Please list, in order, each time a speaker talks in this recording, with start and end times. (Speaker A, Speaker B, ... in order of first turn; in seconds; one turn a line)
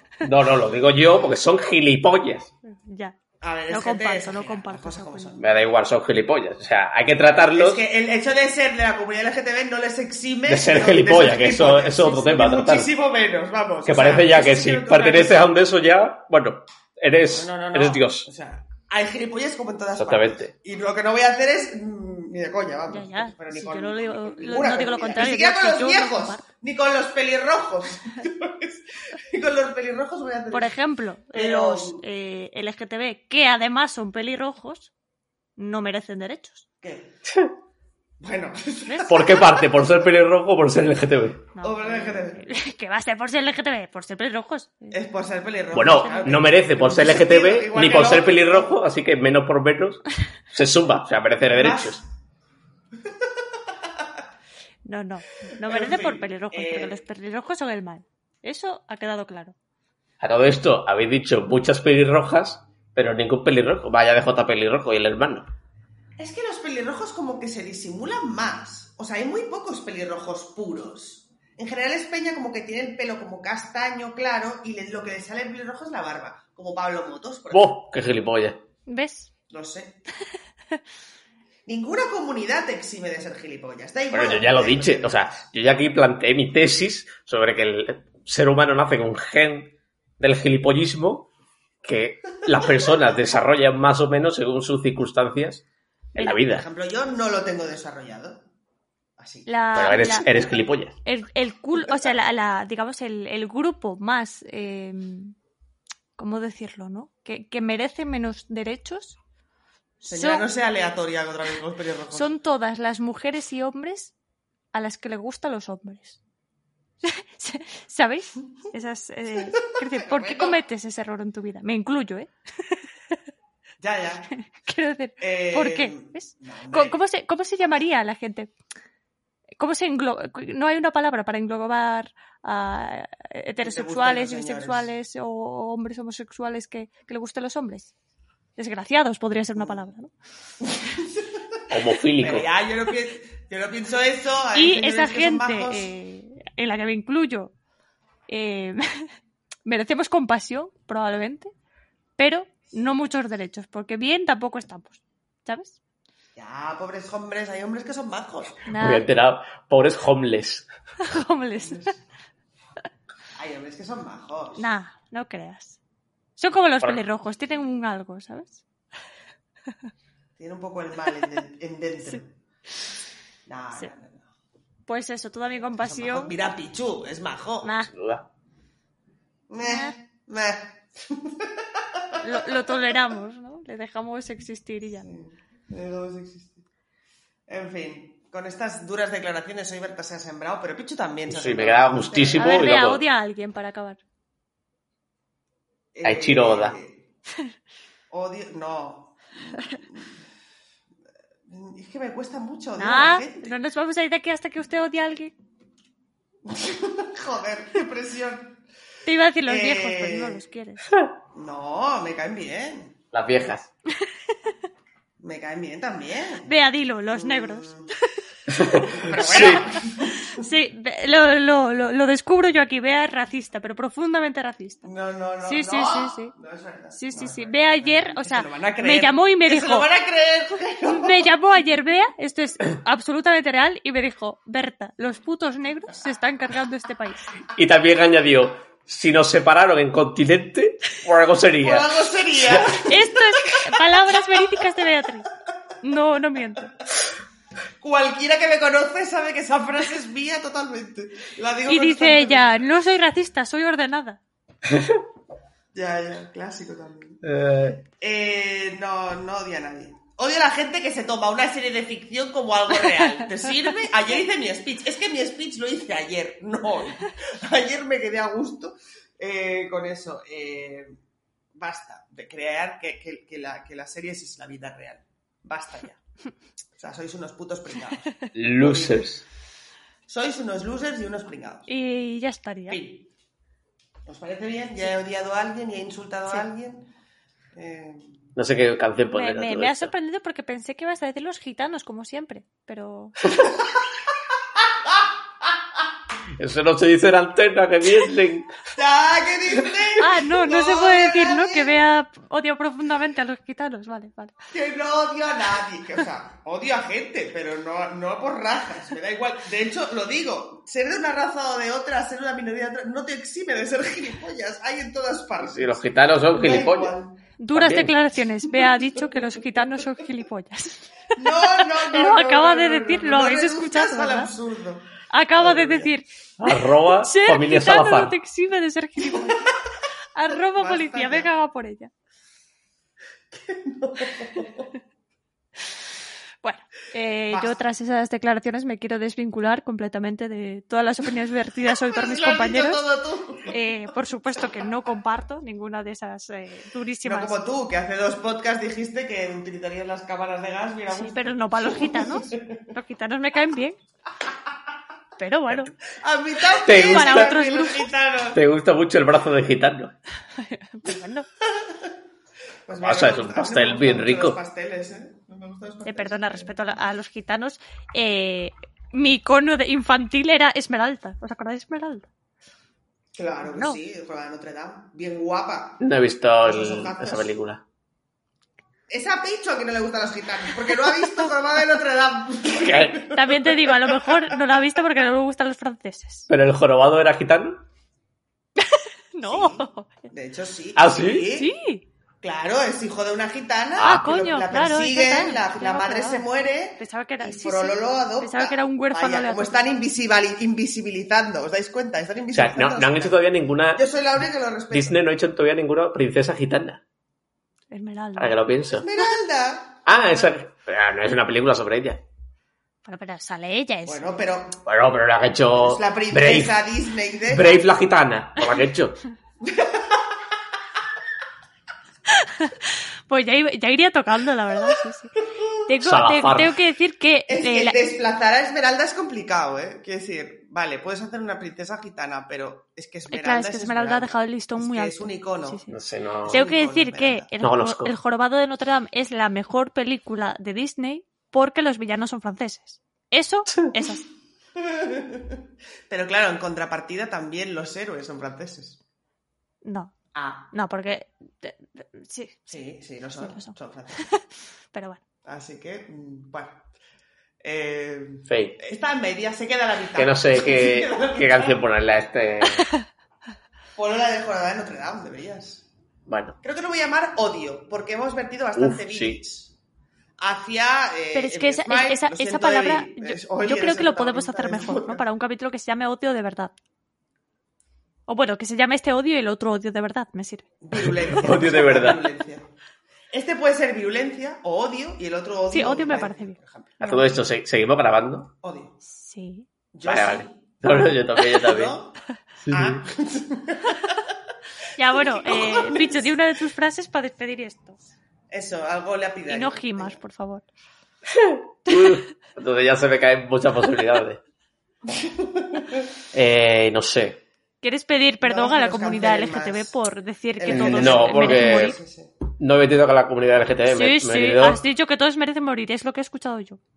Speaker A: 0.2-2.5
Speaker B: 2.6-3.2
Speaker C: 3.4-5.5
Speaker B: 3.7-5.3
Speaker A: 5.4-7.8
Speaker C: 7.5-15.5
Speaker A: 10.5-12.9
Speaker A: 13.8-18.3
Speaker C: 17.3-30.7
Speaker A: 20.0-20.5
Speaker B: 22.9-26.4
Speaker B: 30.5-34.9
Speaker C: 31.3-32.0
Speaker B: 35.6-36.7
Speaker C: 36.8-37.2
Speaker C: 38.2-39.9
Speaker B: 38.9-39.2
Speaker A: 39.1-41.5
Speaker B: 41.5-44.9
Speaker C: 41.6-42.4
Speaker C: 44.9-48.8
Speaker A: 45.7-52.0
Speaker B: 45.9-46.4
Speaker C: 51.5-52.0
Speaker B: 54.9-59.5
Speaker C: 55.6-57.0
Speaker A: 60.2-65.5
Speaker C: 66.2-77.8
Speaker A: 77.5-78.6
Speaker B: 78.9-79.3
Speaker C: 79.5-80.0
Speaker C: 81.7-85.4
Speaker A: 84.1-91.3
Speaker A: 91.8-96.7
Speaker C: 96.2-98.5
Speaker C: 99.2-99.5
Speaker B: 99.5-100.4
Speaker A: 99.8-101.0
Speaker B: 101.0-105.3
Speaker B: 106.2-109.2
Speaker C: 110.0-112.3
Speaker B: 110.1-110.5
Speaker B: 112.1-114.1
Speaker B: 114.7-116.2
Speaker B: 117.0-122.8
Speaker C: 119.5-120.6
Speaker C: 123.8-124.3
Speaker B: 124.4-128.5
Speaker C: 125.2-127.0
Speaker B: 129.6-137.9
Speaker C: 133.6-134.9
Speaker B: 138.6-140.1
Speaker C: 141.0-141.4
Speaker A: 141.7-142.5
Speaker C: 142.2-145.9
Speaker B: 144.6-147.5
Speaker B: 148.3-149.1
Speaker B: 149.7-151.5
Speaker B: 152.2-155.8
Speaker C: 156.4-158.7
Speaker B: 158.7-159.1
Speaker A: 158.8-160.7
Speaker B: 161.0-161.9
Speaker C: 161.7-161.9
Speaker C: 163.4-164.6
Speaker B: 164.6-165.8
Speaker B: 166.4-168.6
Speaker C: 170.4-172.3
Speaker C: 173.5-174.2
Speaker B: 174.9-176.3
Speaker C: 175.7-177.7
Speaker B: 177.6-177.9
Speaker A: 177.9-178.2
Speaker C: 179.5-182.2
Speaker B: 179.6-179.9
Speaker B: 182.2-185.1
Speaker C: 185.0-186.6
Speaker C: 187.5-192.8
Speaker A: 191.3-193.0
Speaker B: 192.4-194.0
Speaker C: 195.9-197.0
Speaker A: 196.0-196.8
Speaker C: 198.1-200.2
Speaker C: 201.5-203.5
Speaker B: 202.8-205.3
Speaker C: 206.5-208.6
Speaker B: 209.1-210.9
Speaker C: 209.5-210.4
Speaker C: 211.3-213.0
Speaker A: 213.1-213.7
Speaker C: 215.2-216.5
Speaker B: 216.4-217.7
Speaker C: 217.1-217.9
Speaker A: 218.5-219.7
Speaker C: 218.8-220.4
Speaker B: 219.6-224.8
Speaker C: 224.8-231.3
Speaker B: 225.4-226.3
Speaker B: 226.9-229.9
Speaker B: 230.8-237.3
Speaker A: 237.5-241.9
Speaker C: 241.6-243.0
Speaker A: 242.4-242.8
Speaker B: 242.8-245.3
Speaker B: 245.8-246.7
Speaker C: 247.8-252.5
Speaker B: 251.7-254.2
Speaker A: 254.7-255.0
Speaker C: 255.7-257.2
Speaker A: 257.2-257.8
Speaker C: 257.9-270.9
Speaker C: 271.6-276.0
Speaker C: 276.8-279.1
Speaker A: 278.3-279.2
Speaker C: 280.1-281.7
Speaker B: 281.7-282.8
Speaker C: 282.7-283.1
Speaker C: 284.1-286.9
Speaker C: 287.5-288.1
Speaker A: 288.4-289.9
Speaker B: 289.1-293.2
Speaker A: 296.4-298.5
Speaker C: 298.7-301.7
Speaker B: 300.0-304.4
Speaker C: 304.5-317.2
Speaker A: 315.4-316.9
Speaker B: 317.4-324.3
Speaker A: 317.5-317.9
Speaker C: 321.1-324.9
Speaker B: 325.1-329.5
Speaker C: 325.4-325.9
Speaker A: 326.4-328.1
Speaker B: 330.1-331.9
Speaker C: 330.6-331.3
Speaker C: 333.3-334.7
Speaker B: 336.4-342.8
Speaker C: 337.3-337.6
Speaker C: 341.7-343.6
Speaker B: 343.5-347.4
Speaker C: 347.0-352.7
Speaker B: 350.9-353.8
Speaker B: 355.2-355.7
Speaker C: 355.9-358.4
Speaker A: 356.6-357.4
Speaker B: 356.9-357.9
Speaker A: 358.3-359.9
Speaker B: 360.4-361.3
Speaker C: 361.6-361.9
Speaker C: 362.7-366.6
Speaker A: 362.8-364.4
Speaker B: 365.9-372.1
Speaker C: 373.1-375.8
Speaker B: 373.5-373.8
Speaker A: 375.8-377.6
Speaker C: 376.4-377.3
Speaker C: 378.9-383.9
Speaker A: 382.6-383.1
Speaker B: 383.0-386.3
Speaker A: 386.3-387.6
Speaker B: 388.6-389.9
Speaker C: 389.3-391.5
Speaker A: 390.8-391.3
Speaker B: 391.4-391.9
Speaker C: 392.2-403.2
Speaker A: 393.8-394.1
Speaker B: 393.8-396.3
Speaker B: 396.8-399.6
Speaker A: 402.3-403.8
Speaker C: 403.7-405.0
Speaker A: 404.7-406.8
Speaker B: 407.7-408.4
Speaker A: 408.2-408.9
Speaker C: 408.8-409.9
Speaker A: 409.9-412.0
Speaker B: 412.9-414.1
Speaker C: 413.9-414.6
Speaker A: 414.6-416.6
Speaker C: 415.5-417.5
Speaker A: 417.3-419.0
Speaker C: 419.4-420.0
Speaker B: 422.1-425.1
Speaker B: 425.7-427.9
Speaker A: 425.8-426.5
Speaker C: 427.3-435.6
Speaker B: 433.1-444.1
Speaker A: 435.7-436.4
Speaker C: 436.3-437.3
Speaker A: 437.4-437.9
Speaker C: 444.6-445.4
Speaker C: 445.9-448.8
Speaker B: 449.6-449.9
Speaker C: 450.1-450.5
Speaker B: 450.5-452.5
Speaker C: 452.5-454.0
Speaker B: 453.2-455.0
Speaker C: 455.2-456.7
Speaker C: 457.4-461.6
Speaker A: 458.3-458.6
Speaker A: 460.0-462.7
Speaker C: 463.8-465.7
Speaker A: 466.1-466.4
Speaker C: 466.4-469.5
Speaker A: 468.6-469.2
Speaker C: 470.2-475.0
Speaker B: 471.1-476.5
Speaker B: 478.1-480.5
Speaker C: 480.6-482.5
Speaker A: 480.8-482.0
Speaker C: 483.1-487.1
Speaker B: 485.5-486.4
Speaker A: 486.8-488.3
Speaker C: 488.4-488.8
Speaker B: 488.9-489.5
Speaker C: 489.7-494.1
Speaker A: 489.9-491.8
Speaker A: 492.5-492.8
Speaker B: 494.8-497.8
Speaker C: 494.9-496.0
Speaker C: 498.3-500.0
Speaker B: 499.3-500.5
Speaker A: 501.1-504.2
Speaker C: 504.9-505.8
Speaker A: 506.1-507.2
Speaker B: 507.6-511.8
Speaker C: 508.2-509.7
Speaker C: 510.4-512.1
Speaker A: 510.5-511.8
Speaker A: 512.4-514.6
Speaker B: 513.7-516.6